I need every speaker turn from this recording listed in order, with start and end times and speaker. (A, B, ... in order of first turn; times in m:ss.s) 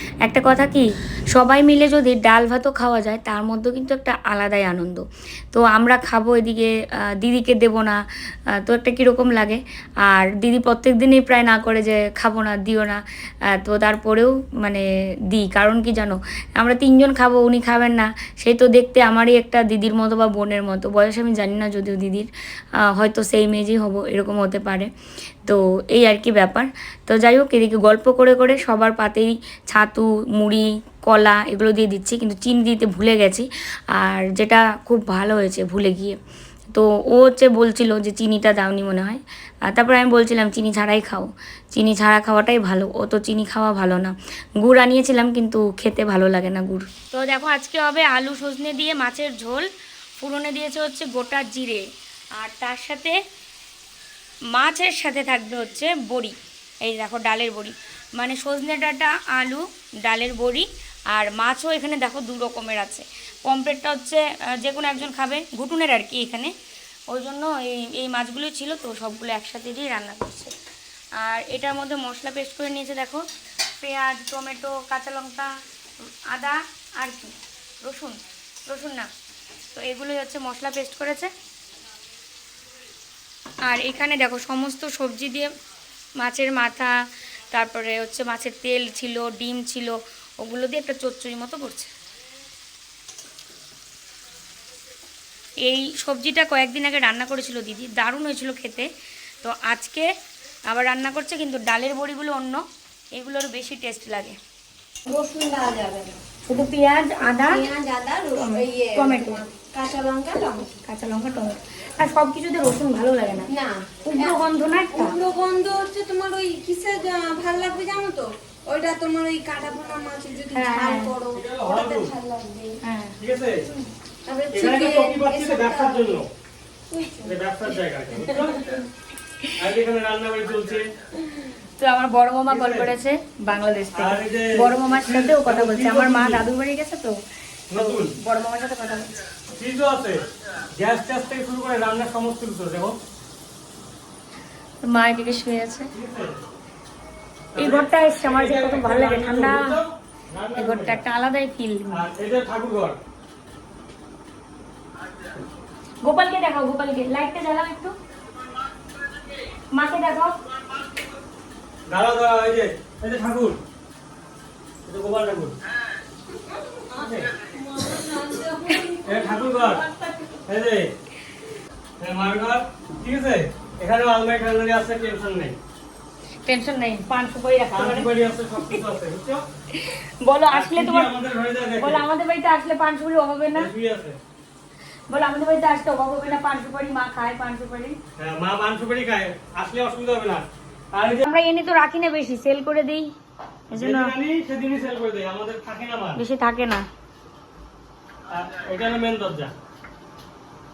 0:00.2-0:24.9 A
0:25.4-0:36.2 A
0:36.7-0:53.2 A
0:54.5-1:06.6 A
1:07.1-1:10.6 A
1:11.2-1:13.2 A
1:13.8-1:15.6 A
1:16.3-1:19.1 A
1:19.7-1:21.3 A
1:23.6-1:25.5 A
1:26.2-1:27.0 A
1:27.5-1:31.9 A
1:35.6-1:38.9 A
1:39.4-1:40.1 A
1:40.7-1:44.4 A
1:45.1-1:46.2 B
1:46.5-1:47.7 A
1:47.4-1:50.8 B
1:48.3-1:49.4 A
1:50.8-1:53.5 A
1:53.5-2:02.8 B
1:54.0-1:55.2 A
2:00.5-2:01.2 A
2:01.3-2:02.2 C
2:02.8-2:03.2 A
2:03.2-2:03.7 C
2:03.7-2:06.2 B
2:04.5-2:06.3 C
2:06.9-2:07.4 B
2:07.2-2:08.8 C
2:08.2-2:08.8 B
2:09.6-2:10.9 C
2:11.8-2:17.2 A
2:12.5-2:12.9 C
2:13.9-2:16.4 C
2:17.7-2:18.2 C
2:17.7-2:19.1 A
2:19.5-2:23.0 C
2:24.8-2:25.9 A
2:25.9-2:26.4 C
2:27.5-2:31.0 C
2:27.6-2:29.8 A
2:30.6-2:32.0 A
2:31.9-2:33.0 C
2:36.0-2:37.9 A
2:39.7-2:40.4 A
2:41.9-2:43.6 C
2:44.8-2:45.6 C
2:46.3-2:50.4 B
2:46.9-2:47.3 C
2:49.0-2:49.9 C
2:50.4-2:50.9 C
2:52.0-2:55.6 C
2:56.4-2:58.1 A
2:57.7-2:59.4 C
2:59.7-3:01.1 A
3:00.5-3:02.1 C
3:01.8-3:03.7 A
3:03.5-3:04.2 C
3:05.1-3:08.0 A
3:08.2-3:11.2 C
3:11.2-3:13.1 A
3:13.7-3:14.1 A
3:13.7-3:16.2 C
3:16.2-3:16.8 A
3:18.3-3:19.5 C